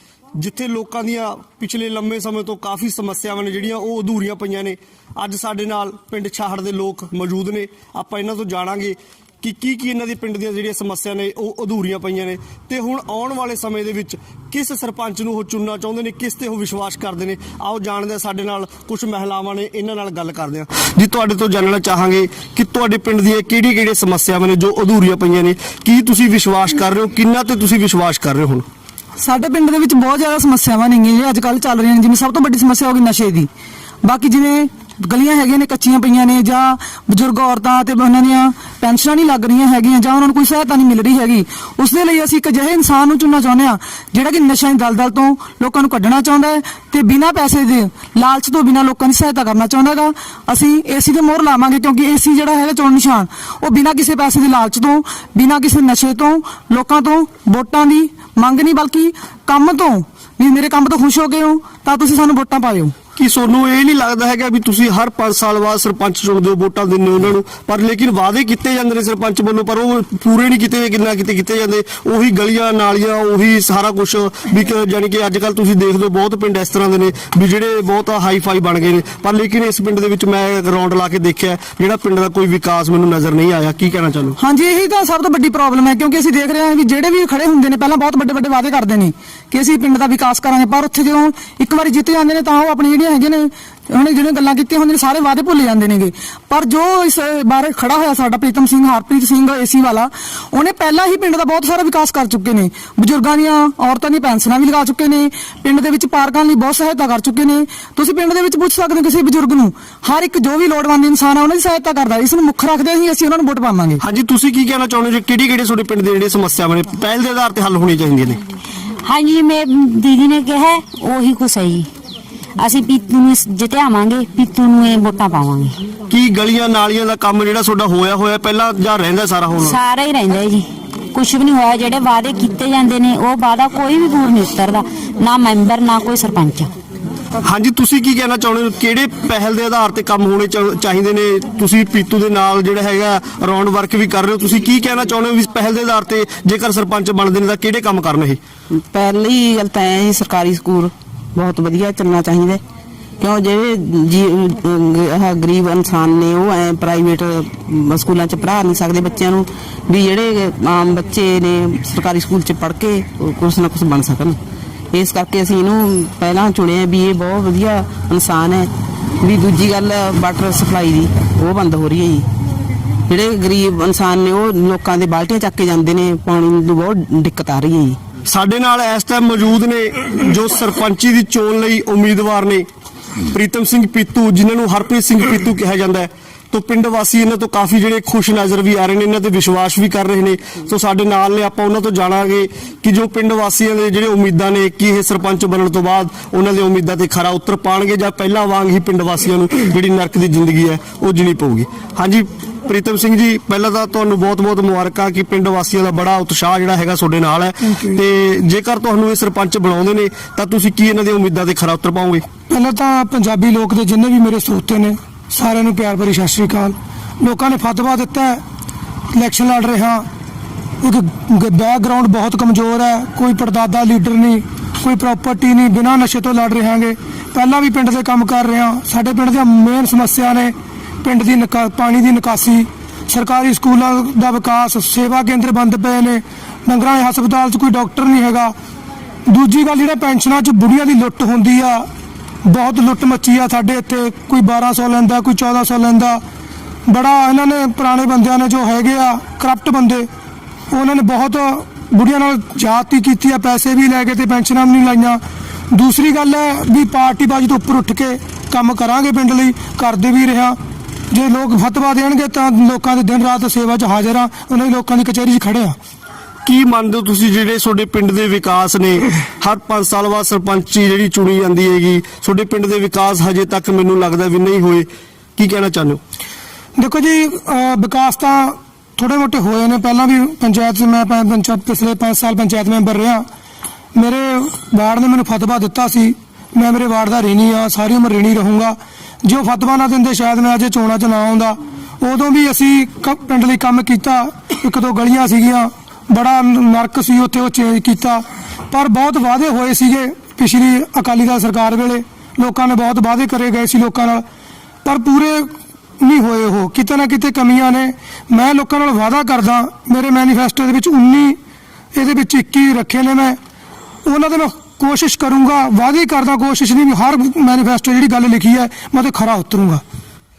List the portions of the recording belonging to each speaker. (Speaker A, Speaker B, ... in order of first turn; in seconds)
Speaker A: 0.4-28.6, 63.2-84.4, 114.0-118.4, 126.1-129.8, 137.4-148.4, 178.3-182.7, 183.3-212.2, 266.4-276.0
Speaker B: 29.2-33.5, 34.0-62.9, 84.4-114.0
Speaker C: 119.0-121.9, 122.6-125.8, 129.6-136.7
Speaker D: 148.7-152.6, 153.2-164.4, 164.9-172.3, 173.1-178.0
Speaker E: 212.5-218.4, 219.1-220.0, 220.8-238.5, 239.3-241.9, 242.4-246.2, 246.9-250.1, 250.7-255.2, 255.7-260.6, 261.1-265.8, 276.8-283.3, 283.9-304.2, 304.9-305.5, 306.0-311.4, 311.9-313.4, 314.1-319.8